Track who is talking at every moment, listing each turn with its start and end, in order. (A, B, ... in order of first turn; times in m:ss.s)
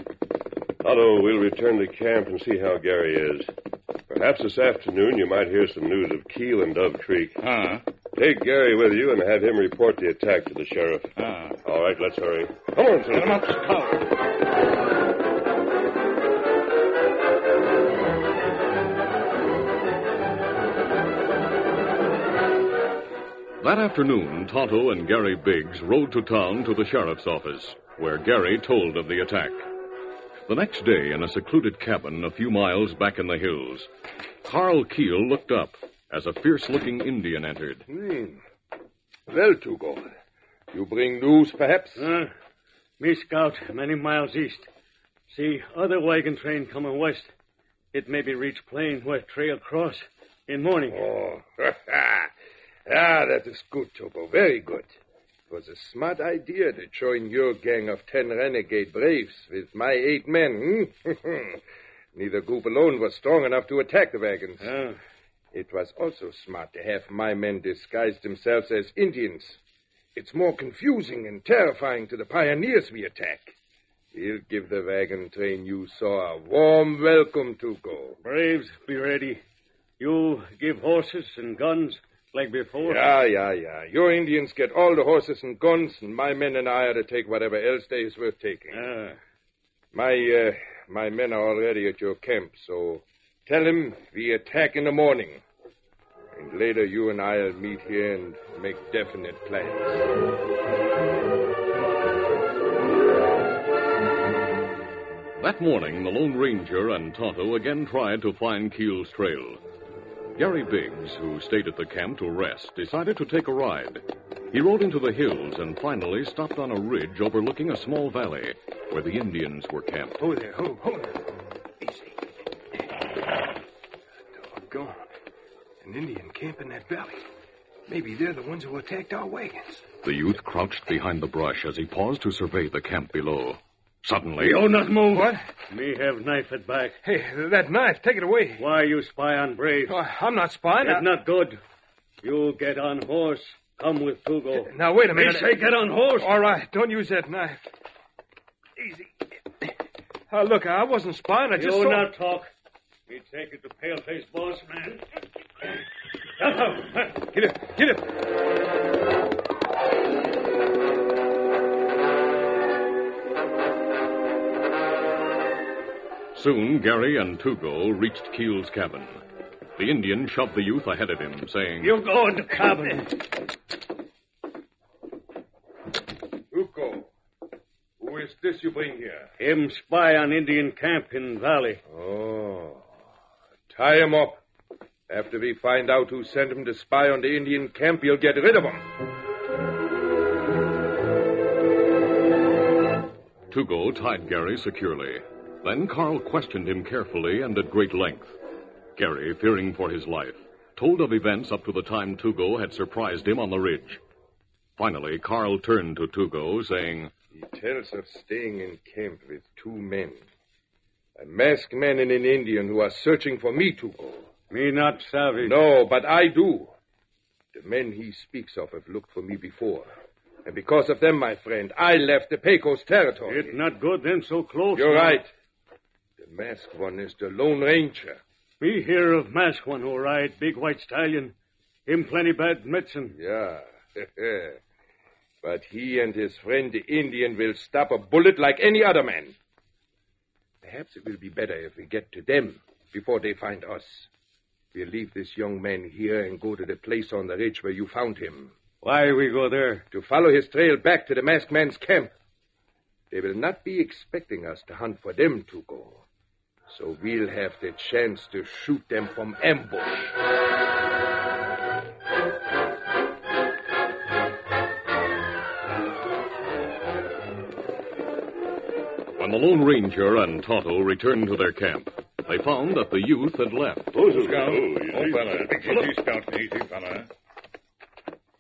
0:00.8-0:03.5 A
0:04.1-0:07.4 A
0:07.4-0:07.8 B
0:08.2-0:11.1 A
0:11.2-0:11.6 B
0:11.6-0:13.5 A
0:13.1-0:14.0 B
0:23.6-0:29.7 C
0:30.5-0:33.9 C
0:34.4-0:37.8 C
0:37.9-0:38.4 D
0:39.3-0:40.1 D
0:40.7-0:42.1 D
0:42.0-0:42.3 E
0:43.0-0:44.7 E
0:45.3-0:47.3 E
0:47.9-0:51.0 E
0:50.9-0:52.3 D
0:52.9-0:54.9 D
0:55.5-1:01.6 D
1:02.2-1:04.8 D
1:04.6-1:05.0 E
1:05.5-1:09.6 D
1:10.2-1:13.5 D
1:14.1-1:18.2 D
1:18.2-1:19.4 E
1:20.0-1:23.1 E
1:22.8-1:28.8 D
1:28.7-1:29.2 E
1:29.9-1:35.4 D
1:36.4-1:40.1 D
1:45.4-1:49.6 C
1:50.4-2:00.2 C
2:00.2-2:01.2 F
2:01.8-2:02.2 F
2:04.4-2:05.0 F
2:05.8-2:07.2 F
2:07.9-2:09.8 F
2:10.0-2:14.6 C
2:14.4-2:17.0 E
2:15.1-2:15.4 F
2:17.0-2:18.6 F
2:18.6-2:20.0 E
2:19.8-2:21.1 F
2:20.8-2:21.6 E
2:22.2-2:26.4 E
2:24.7-2:25.6 F
2:26.2-2:27.7 F
2:28.8-2:29.1 F
2:30.3-2:32.1 F
2:31.6-2:32.5 E
2:33.1-2:35.0 E
2:36.4-2:37.2 E
2:37.3-2:38.0 F
2:46.3-2:49.2 C
2:49.8-2:51.9 C
2:51.8-2:53.2 E
2:56.5-2:57.1 D
2:58.0-2:59.3 D
2:59.4-3:01.8 E
3:01.9-3:02.8 D
3:03.7-3:04.4 D
3:05.1-3:08.9 D
3:13.5-3:18.4 C
3:19.0-3:24.0 C
3:24.8-3:27.1 C
3:27.3-3:30.2 D
3:31.2-3:34.3 D
3:34.5-3:35.6 E
3:35.4-3:36.7 D
3:37.5-3:39.9 D
3:40.4-3:43.5 D
3:43.3-3:45.2 E
3:44.7-3:45.3 D
3:46.2-3:48.2 D
3:48.6-3:51.3 E
3:51.9-3:53.2 E
3:53.2-3:54.6 D
3:55.4-3:59.4 D
4:00.6-4:04.1 D
4:04.7-4:08.5 D
4:08.8-4:09.8 E
4:09.9-4:12.1 D
4:13.1-4:16.0 D
4:16.7-4:20.1 D
4:29.2-4:33.9 C
4:33.9-4:35.9 A
4:34.0-4:37.1 B